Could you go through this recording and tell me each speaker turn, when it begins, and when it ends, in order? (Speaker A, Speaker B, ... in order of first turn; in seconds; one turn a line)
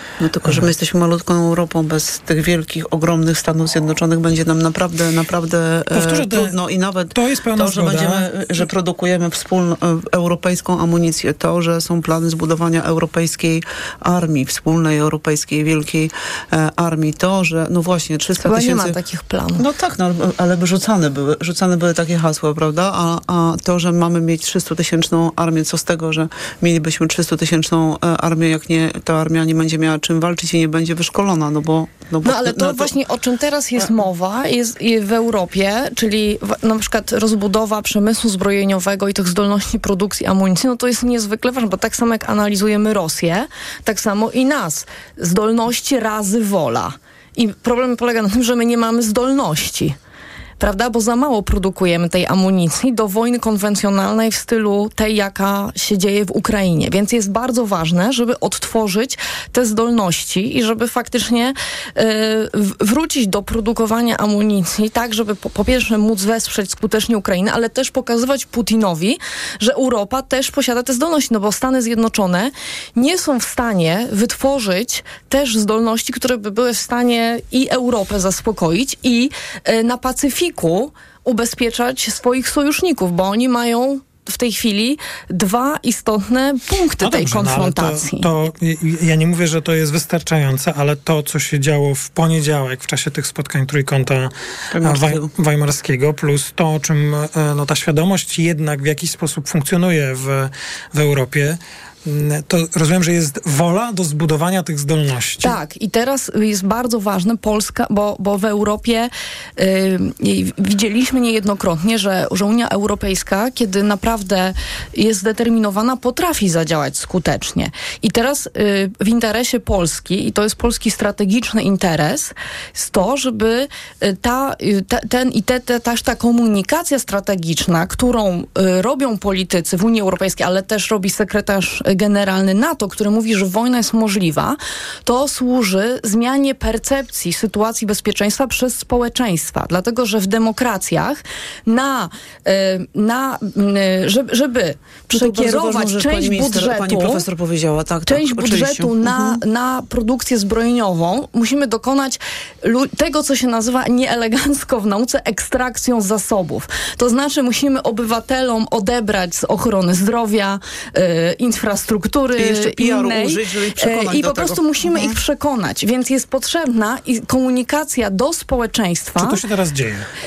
Speaker A: 0.2-19.0
Speaker B: 0.4-0.7
Speaker B: 5.9-6.6
Speaker B: 7.1-8.3
Speaker C: 18.4-19.7
Speaker A: 19.6-32.9
Speaker C: 32.2-50.0
Speaker C: 50.6-88.3
Speaker B: 87.0-94.3
Speaker A: 94.7-95.3
Speaker B: 94.8-105.6
Speaker C: 105.4-147.3
Speaker A: 145.1-149.4
Speaker C: 148.1-169.4
Speaker A: 162.4-165.2
Speaker B: 169.2-170.1